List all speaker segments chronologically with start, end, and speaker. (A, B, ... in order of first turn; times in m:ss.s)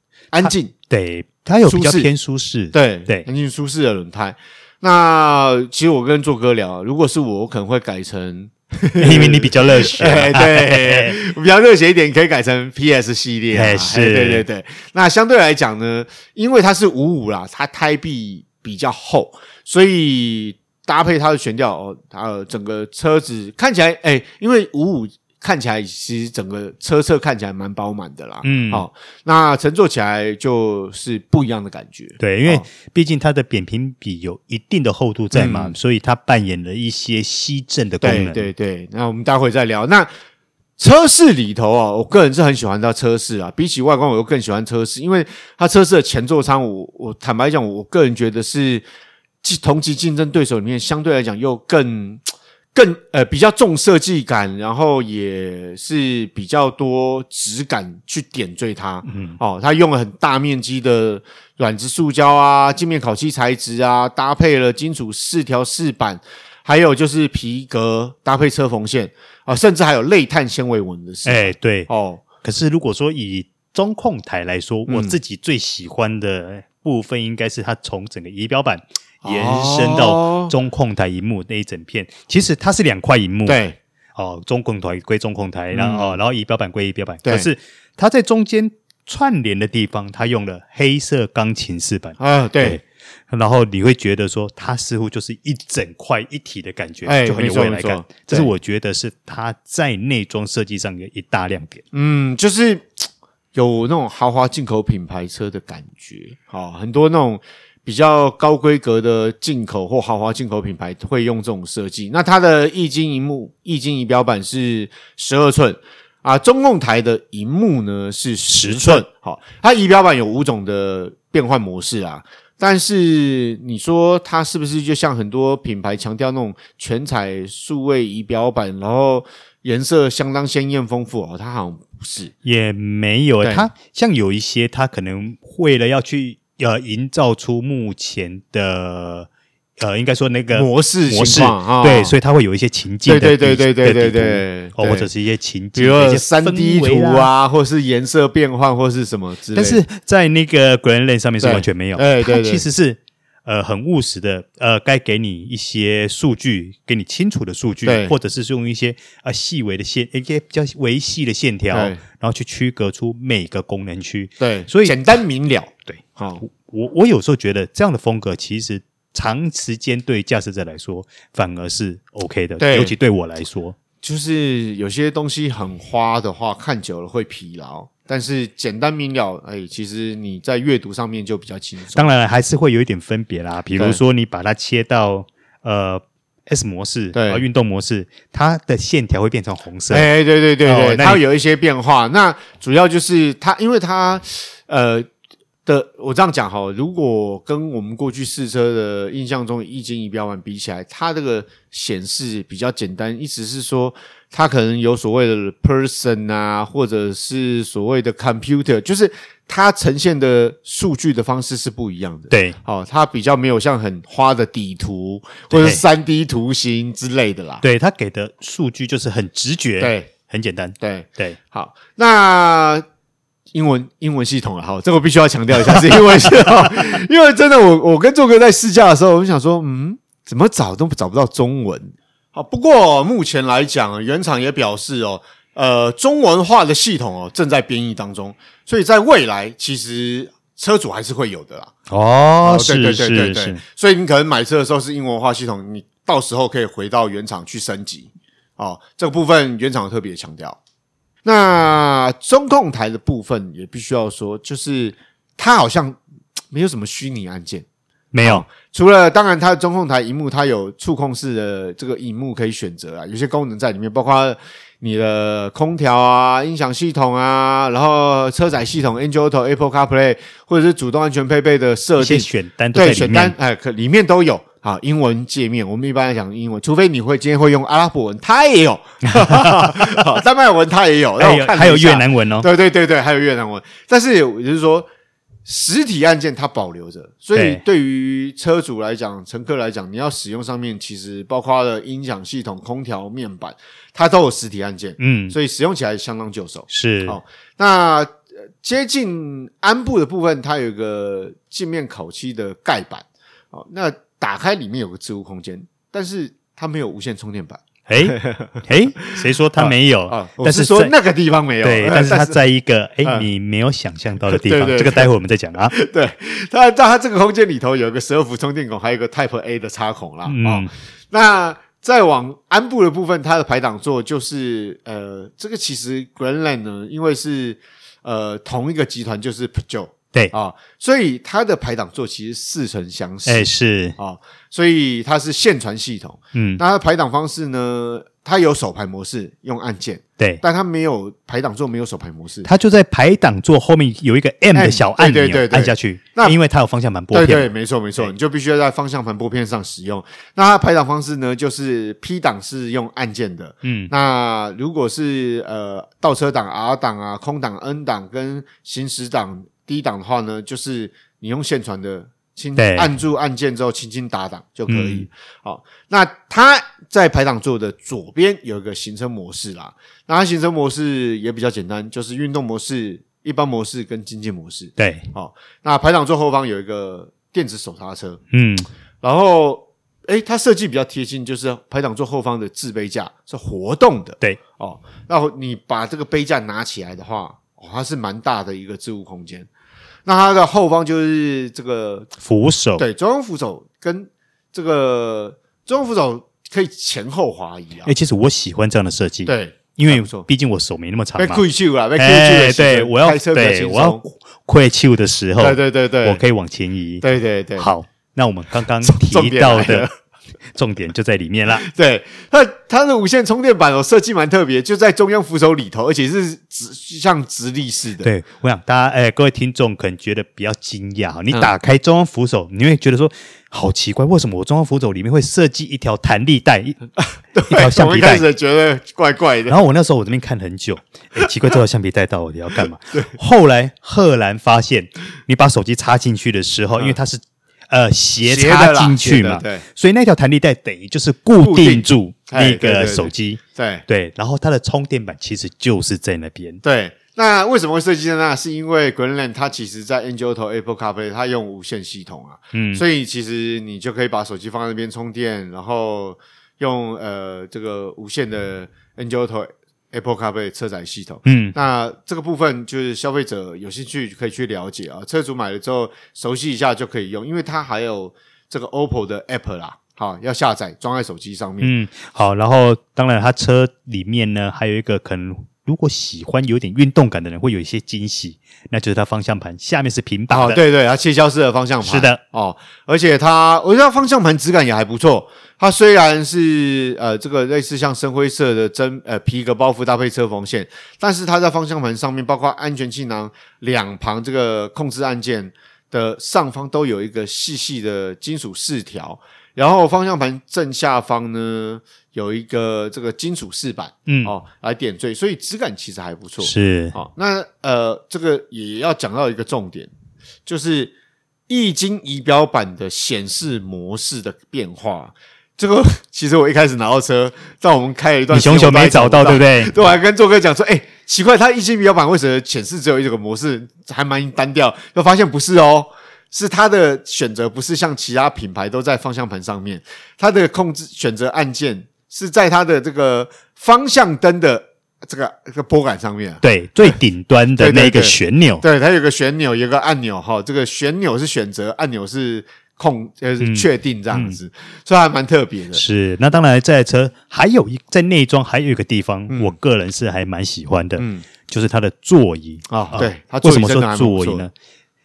0:00.3-0:00.7 A
0:00.4-0:03.3 B
0:01.7-0:02.1 A
0:02.7-0:32.7 A
0:09.0-0:11.2 B
0:13.5-0:14.4 B
0:28.4-0:28.8 B
0:32.2-0:38.5 B
0:35.3-0:35.8 A
0:38.0-0:40.1 A
0:40.8-0:48.8 A
0:49.4-0:52.2 A
0:52.7-1:12.2 A
0:59.1-0:59.4 B
1:11.2-1:11.9 B
1:12.4-1:23.6 B
1:14.9-1:15.2 A
1:19.2-1:20.5 A
1:23.5-1:23.8 A
1:24.2-1:41.8 B
1:25.7-1:26.2 A
1:32.2-1:32.8 A
1:37.0-1:38.5 A
1:41.9-2:12.3 A
1:58.5-1:59.0 B
2:12.4-2:19.3 B
2:13.4-2:13.7 A
2:19.8-2:27.3 B
2:20.5-2:22.2 A
2:23.1-2:25.1 A
2:25.8-2:29.8 A
2:29.6-2:45.0 B
2:31.4-2:32.7 A
2:37.8-2:38.1 A
2:41.7-2:42.0 A
2:44.4-2:46.4 A
2:45.9-2:53.8 B
2:52.6-2:52.9 A
2:54.0-3:02.1 A
3:01.9-3:10.1 B
3:07.1-3:07.4 A
3:09.9-3:15.1 A
3:10.6-3:11.2 B
3:15.7-3:37.6 A
3:32.3-3:32.6 B
3:35.5-3:35.8 B
3:37.6-3:41.4 B
3:39.8-3:40.1 A
3:40.8-3:42.8 A
3:43.5-4:01.7 A
3:45.7-3:46.7 B
4:01.9-4:03.6 B
4:02.4-4:10.6 A
4:11.2-4:16.0 A
4:16.5-4:17.6 A
4:18.1-4:18.5 B
4:18.2-4:44.9 A
4:32.0-4:33.4 B
4:39.1-4:40.2 B
4:41.2-4:42.5 B
4:45.4-5:12.4 A
4:47.4-4:47.6 B
4:55.0-4:55.4 B
4:56.7-4:57.2 B
5:07.9-5:10.9 B
5:11.6-5:15.8 B
5:14.3-5:15.1 A
5:15.7-5:42.5 A
5:20.3-5:20.7 B
5:33.3-5:34.0 B
5:36.4-5:36.6 B
5:42.4-5:48.1 B
5:44.5-5:46.4 A
5:47.1-6:18.2 A
5:53.6-5:53.9 B
6:02.6-6:02.9 B
6:04.7-6:05.1 B
6:14.8-6:15.1 B
6:18.3-6:18.7 B
6:19.0-6:29.5 A
6:30.1-6:32.1 A
6:32.2-6:32.8 B
6:32.8-6:37.9 A
6:37.8-6:41.4 B
6:39.3-6:40.3 A
6:41.2-6:44.0 A
6:42.0-6:47.0 B
6:45.4-6:46.2 A
6:47.0-6:47.7 A
6:47.6-6:49.9 B
6:48.8-6:49.9 A
6:50.6-6:51.7 B
6:51.5-6:58.1 A
6:58.0-7:06.8 B
7:07.0-7:09.7 A
7:07.5-7:08.3 B
7:09.5-7:26.6 B
7:18.2-7:19.6 A
7:21.4-7:23.8 A
7:26.6-7:51.7 A
7:32.5-7:32.8 B
7:41.2-7:41.6 B
7:51.6-8:00.6 B
8:00.3-8:29.9 A
8:01.8-8:02.2 B
8:24.1-8:24.3 B
8:26.4-8:27.0 B
8:30.5-8:31.0 A
8:31.5-8:56.9 A
8:38.3-8:39.7 B
8:56.4-8:58.6 B
8:57.6-9:05.8 A
9:03.4-9:04.4 B
9:05.7-9:14.5 B
9:09.3-9:09.6 A
9:11.0-9:11.3 A
9:12.7-9:14.5 A